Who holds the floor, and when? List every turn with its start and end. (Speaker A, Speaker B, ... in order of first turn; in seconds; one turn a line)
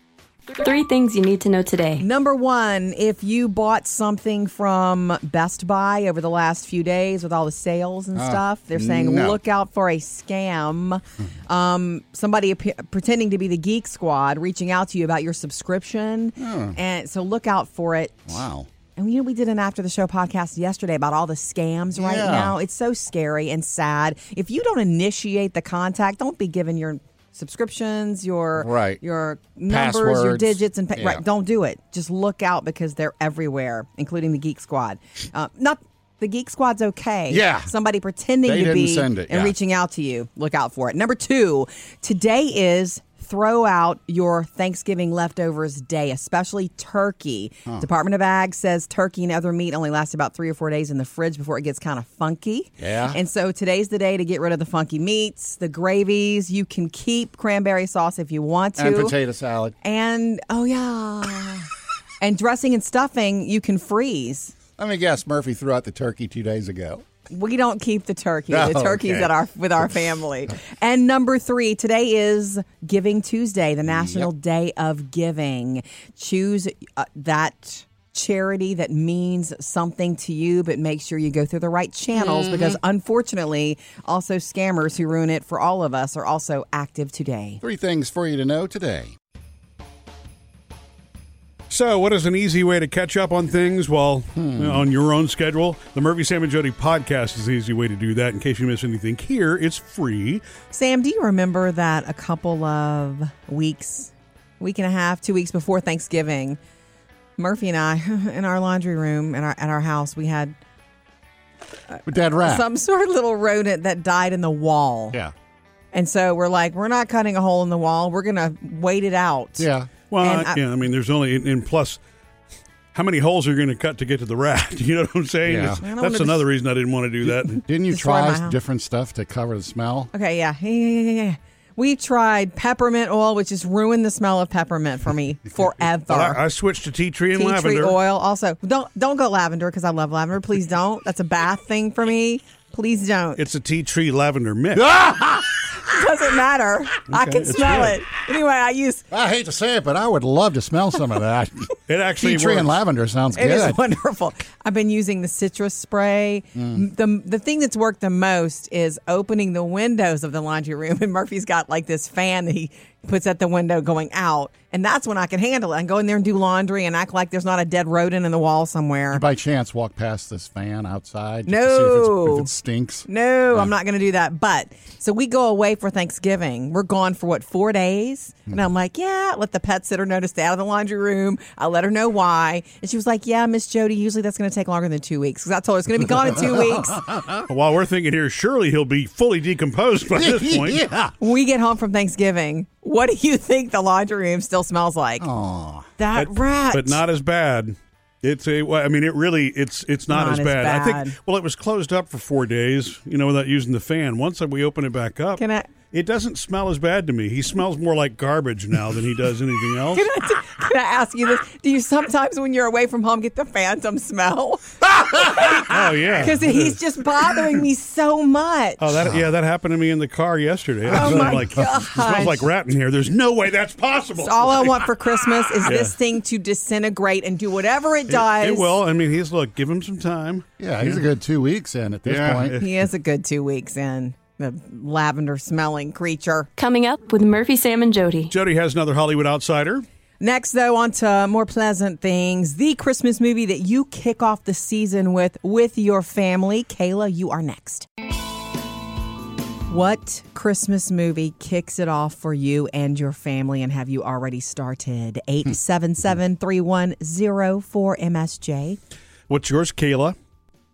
Speaker A: 0.6-2.0
Speaker B: 2.0-18.4
Speaker C: 8.1-9.4
Speaker C: 16.4-16.8
Speaker C: 18.3-18.7
Speaker B: 18.9-59.1
Speaker C: 22.0-22.6
Speaker C: 28.6-29.0
Speaker C: 29.7-31.2
Speaker C: 37.3-37.7
Speaker C: 38.4-39.5
Speaker C: 52.8-53.2
Speaker C: 58.8-59.7
Speaker B: 59.8-61.7
Speaker B: 62.2-64.5
Speaker C: 64.8-67.0
Speaker B: 67.3-87.6
Speaker C: 68.5-69.3
Speaker C: 73.8-74.3
Speaker C: 82.1-82.8
Speaker C: 87.6-89.1
Speaker D: 91.7-100.4
Speaker C: 94.3-94.9
Speaker B: 100.7-106.6
Speaker B: 107.4-110.5
Speaker B: 111.9-115.2
Speaker C: 112.0-112.7
Speaker B: 115.9-119.7
Speaker C: 119.6-119.9
Speaker D: 120.1-122.0
Speaker B: 120.2-120.6
Speaker D: 122.9-127.6
Speaker C: 125.4-125.8
Speaker B: 125.8-126.4
Speaker C: 127.6-130.1
Speaker B: 127.9-128.6
Speaker B: 130.1-136.4
Speaker D: 136.0-138.0
Speaker B: 137.3-143.4
Speaker D: 143.4-144.9
Speaker C: 144.7-145.8
Speaker B: 145.8-149.1
Speaker D: 147.1-148.0
Speaker C: 149.1-153.8
Speaker D: 151.9-152.7
Speaker B: 153.3-169.2
Speaker C: 156.5-156.8
Speaker C: 169.1-173.7
Speaker B: 171.5-172.5
Speaker B: 173.1-187.0
Speaker C: 186.3-187.5
Speaker D: 187.5-190.8
Speaker C: 190.1-191.2
Speaker B: 191.2-195.3
Speaker C: 195.2-195.9
Speaker B: 196.0-197.0
Speaker D: 196.1-210.1
Speaker B: 200.1-201.2
Speaker B: 205.4-205.7
Speaker B: 209.9-218.8
Speaker C: 215.0-216.1
Speaker D: 215.5-216.8
Speaker D: 218.8-224.9
Speaker C: 220.9-221.4
Speaker B: 220.9-222.4
Speaker B: 224.2-228.7
Speaker D: 225.6-225.9
Speaker D: 228.1-231.0
Speaker C: 230.6-232.6
Speaker D: 232.1-232.7
Speaker B: 232.6-236.5
Speaker A: 236.6-238.3
Speaker D: 238.3-239.8
Speaker B: 240.2-247.9
Speaker B: 249.7-258.8
Speaker D: 259.3-260.1